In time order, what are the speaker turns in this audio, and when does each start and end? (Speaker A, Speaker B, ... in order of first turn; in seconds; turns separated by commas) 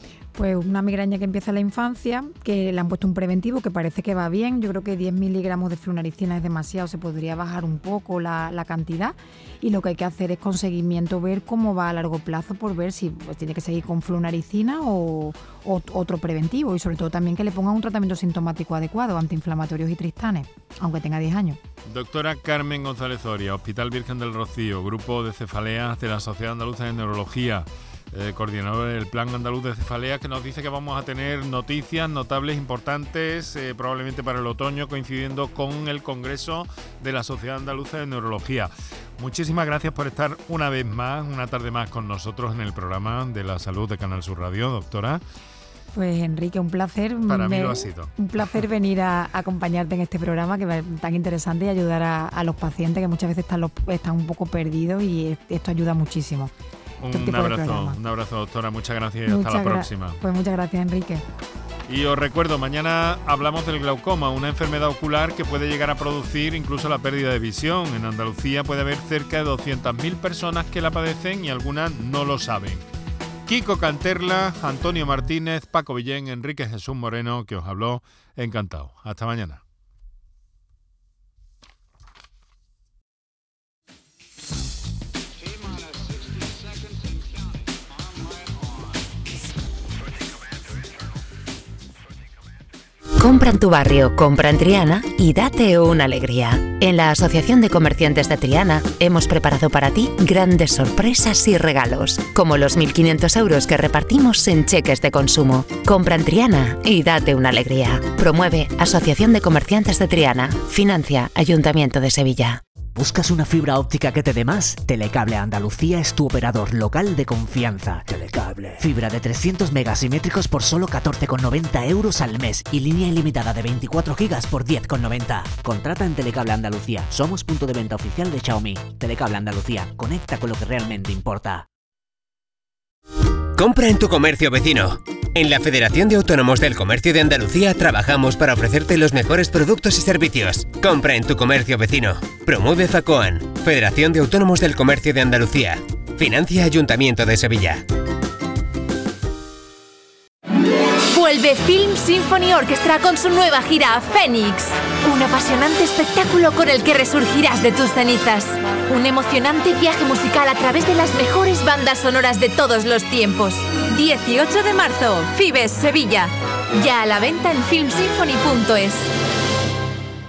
Speaker A: 0.3-21.6, Speaker B: 21.9-45.2, Speaker A: 45.9-56.5, Speaker B: 47.3-48.6, Speaker B: 57.0-60.2, Speaker A: 57.1-58.0, Speaker A: 59.2-61.2, Speaker B: 61.9-72.9, Speaker B: 73.5-79.6, Speaker C: 93.2-112.6, Speaker D: 112.9-131.7, Speaker E: 133.6-147.8, Speaker F: 151.1-169.1